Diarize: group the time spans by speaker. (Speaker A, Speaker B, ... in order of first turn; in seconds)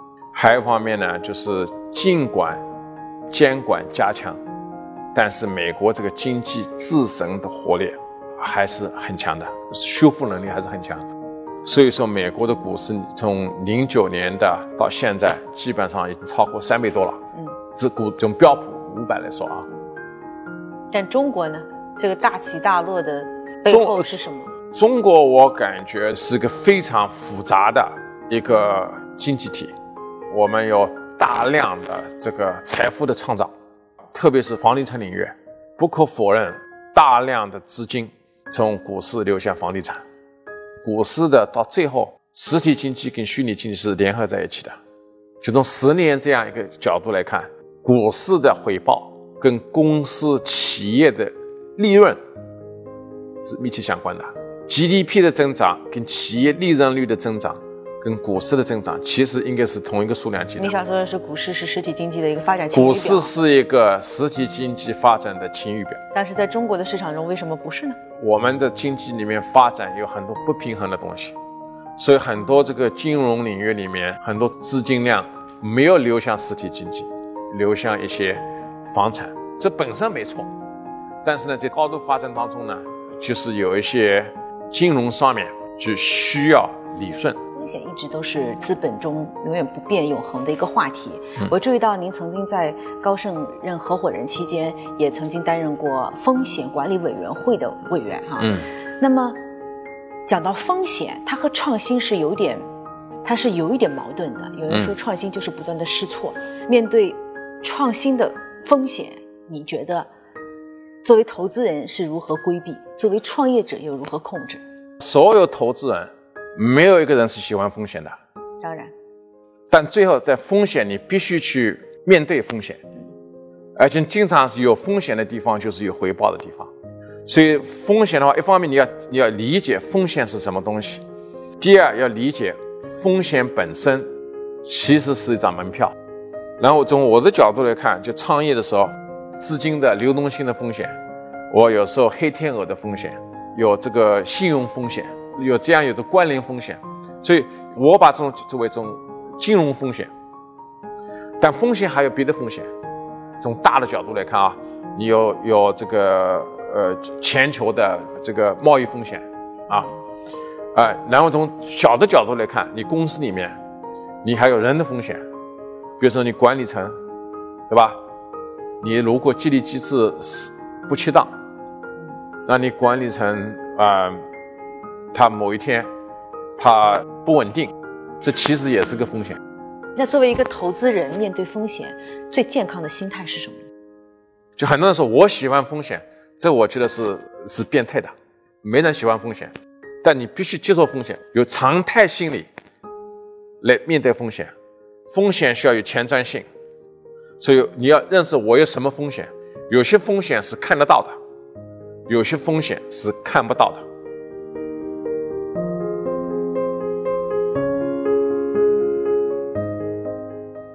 Speaker A: 0.3-2.6, 3.3-4.4, 5.2-11.0, 11.7-17.2, 17.8-19.7, 23.7-24.2, 24.7-29.7, 30.3-33.5, 34.1-40.0, 40.8-44.8, 45.4-52.2, 53.4-60.7, 62.7-66.0, 68.2-71.3, 72.0-80.5, 81.2-87.4, 98.4-98.7, 115.0-118.2, 119.7-122.8, 123.8-126.7, 127.3-131.0, 131.6-134.1, 134.7-135.9, 136.6-141.0, 141.5-150.1, 151.4-152.7, 153.4-159.9, 160.8-163.6, 164.2-165.2, 166.0-167.0, 167.7-168.0, 168.8-171.3, 172.5-174.2, 175.1-175.9, 176.6-179.4, 184.6-192.5, 193.6-194.5, 195.1-196.5, 197.4-201.2, 202.1-203.8
Speaker B: 20.9-24.5, 60.6-63.3, 66.1-68.0, 87.5-99.4, 100.3-102.7, 103.2-110.1, 111.0-114.6, 118.6-118.9, 180.0-183.6